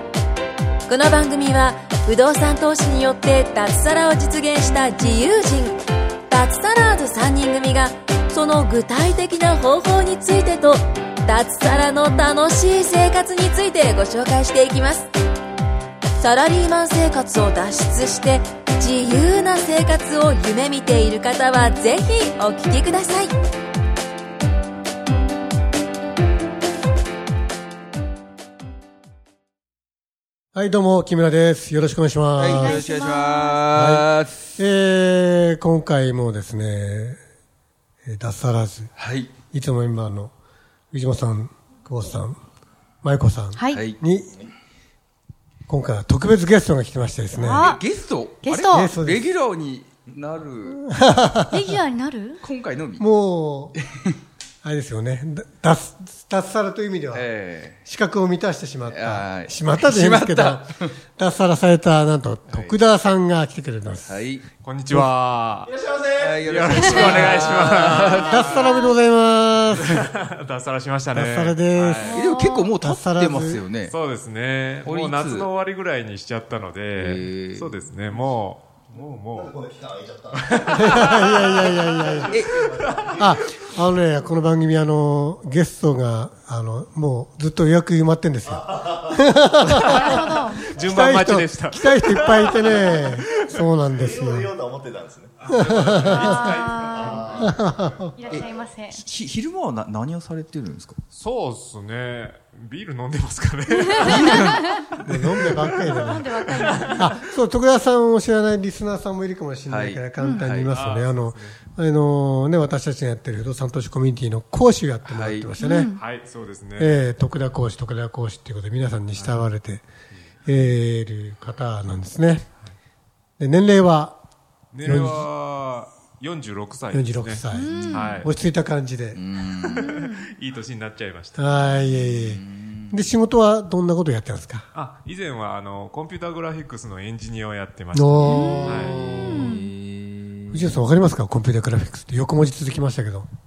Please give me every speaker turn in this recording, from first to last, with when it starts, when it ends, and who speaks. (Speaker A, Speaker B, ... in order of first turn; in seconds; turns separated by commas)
Speaker A: 0.9-5.8, Speaker A: 6.3-10.8, Speaker A: 11.3-15.1, Speaker A: 16.2-23.3, Speaker B: 30.5-32.9, Speaker C: 32.4-33.6, Speaker D: 32.4-34.5, Speaker B: 33.7-37.2, Speaker B: 38.0-38.9, Speaker D: 39.0-39.3, Speaker B: 39.5-40.3, Speaker B: 40.9-42.4, Speaker B: 43.0-44.4, Speaker C: 43.5-43.8, Speaker D: 43.7-44.0, Speaker B: 45.7-47.7, Speaker D: 47.3-50.8, Speaker C: 47.4-47.8, Speaker C: 48.4-49.0, Speaker B: 48.7-49.3, Speaker B: 50.7-51.8, Speaker C: 51.5-52.4, Speaker D: 52.4-53.0, Speaker B: 53.0-53.8, Speaker D: 53.8-54.2, Speaker B: 54.6-57.3, Speaker D: 57.1-57.8, Speaker B: 57.8-64.2, Speaker D: 58.9-61.0, Speaker D: 62.5-62.8, Speaker D: 64.0-64.5, Speaker E: 64.6-65.7, Speaker F: 65.7-67.1, Speaker D: 66.2-68.7, Speaker E: 66.4-68.8, Speaker B: 68.2-70.0, Speaker C: 68.6-68.9, Speaker E: 69.7-72.2, Speaker B: 71.1-72.3, Speaker C: 72.0-72.7, Speaker D: 72.1-74.0, Speaker B: 72.8-73.7, Speaker E: 73.9-79.6, Speaker D: 74.8-75.5, Speaker D: 76.9-77.9, Speaker F: 79.3-83.4, Speaker E: 80.3-82.0, Speaker B: 80.7-82.4, Speaker D: 82.3-82.7, Speaker E: 82.7-83.6, Speaker B: 83.1-94.5, Speaker F: 88.5-89.2, Speaker E: 89.7-93.8, Speaker C: 89.9-90.7, Speaker F: 92.9-95.5, Speaker E: 95.4-97.8, Speaker B: 95.5-96.6, Speaker C: 96.0-97.5, Speaker F: 96.8-97.6, Speaker B: 97.4-98.1, Speaker C: 98.1-99.0, Speaker D: 98.3-101.0, Speaker E: 101.1-107.2, Speaker C: 103.8-104.8, Speaker D: 104.0-104.8, Speaker B: 105.0-106.3, Speaker C: 105.6-107.1, Speaker B: 106.9-115.9, Speaker D: 109.7-110.0, Speaker E: 110.3-111.6, Speaker D: 115.1-115.5, Speaker C: 115.6-116.0, Speaker E: 116.0-117.0, Speaker B: 116.8-119.8, Speaker E: 119.2-119.5, Speaker B: 120.5-122.5, Speaker B: 123.4-124.2, Speaker E: 124.7-128.3, Speaker B: 124.8-125.3, Speaker B: 126.9-129.2, Speaker C: 127.5-128.2, Speaker D: 127.8-128.1, Speaker D: 129.1-129.9, Speaker E: 129.7-131.5, Speaker C: 129.8-130.2, Speaker B: 131.4-134.7, Speaker D: 131.7-133.0, Speaker E: 134.7-139.0, Speaker B: 137.9-139.5, Speaker C: 138.2-139.6, Speaker D: 139.2-140.8, Speaker B: 140.5-143.3